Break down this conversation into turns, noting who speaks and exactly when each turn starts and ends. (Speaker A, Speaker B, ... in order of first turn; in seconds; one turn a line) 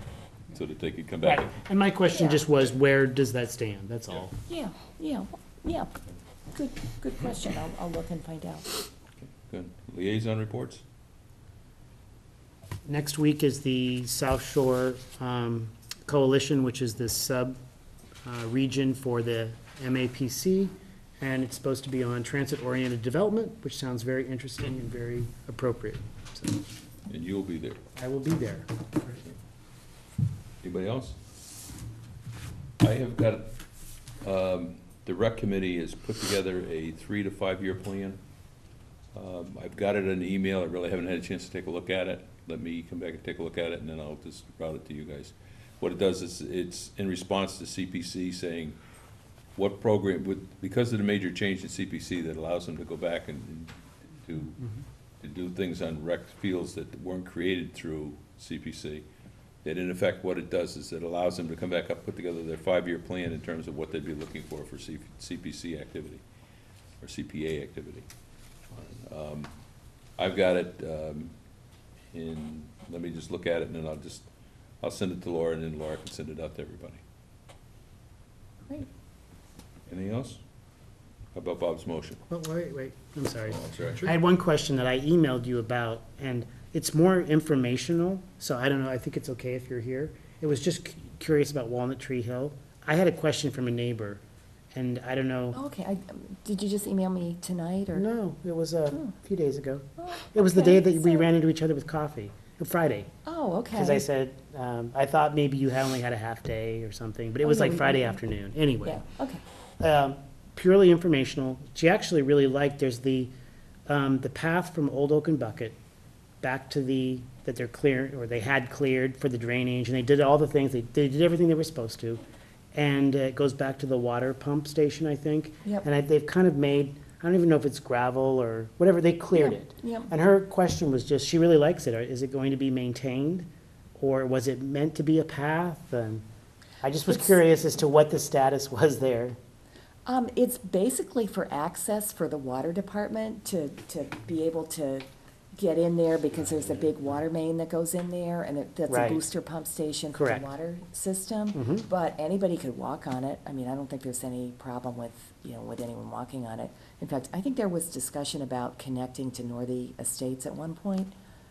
Speaker A: 0.5-1.5
Speaker B: 1.2-4.3
Speaker C: 2.1-2.4
Speaker C: 4.5-5.9
Speaker C: 6.5-8.7
Speaker A: 9.2-10.8
Speaker B: 12.8-17.6
Speaker B: 18.2-26.6
Speaker A: 27.1-27.8
Speaker B: 28.0-28.7
Speaker A: 30.6-31.1
Speaker A: 32.8-33.5
Speaker A: 34.2-38.2
Speaker A: 39.1-48.8
Speaker A: 49.5-54.7
Speaker A: 55.2-59.0
Speaker A: 59.6-66.2
Speaker A: 67.0-68.0
Speaker A: 68.7-69.5
Speaker A: 70.2-71.3
Speaker A: 72.1-74.3
Speaker A: 74.8-77.0
Speaker A: 79.9-80.4
Speaker A: 81.3-82.2
Speaker B: 82.3-94.2
Speaker A: 83.5-84.1
Speaker B: 94.7-95.6
Speaker C: 95.5-98.0
Speaker B: 97.9-103.1
Speaker C: 100.0-101.2
Speaker C: 103.2-104.0
Speaker B: 103.8-109.0
Speaker C: 107.4-108.2
Speaker C: 108.8-109.4
Speaker B: 109.8-113.3
Speaker B: 113.9-115.8
Speaker B: 116.4-122.2
Speaker B: 122.7-136.2
Speaker C: 129.3-130.1
Speaker B: 136.8-139.4
Speaker C: 140.1-161.1
Speaker B: 148.9-149.2
Speaker B: 150.1-150.4
Speaker B: 151.5-151.8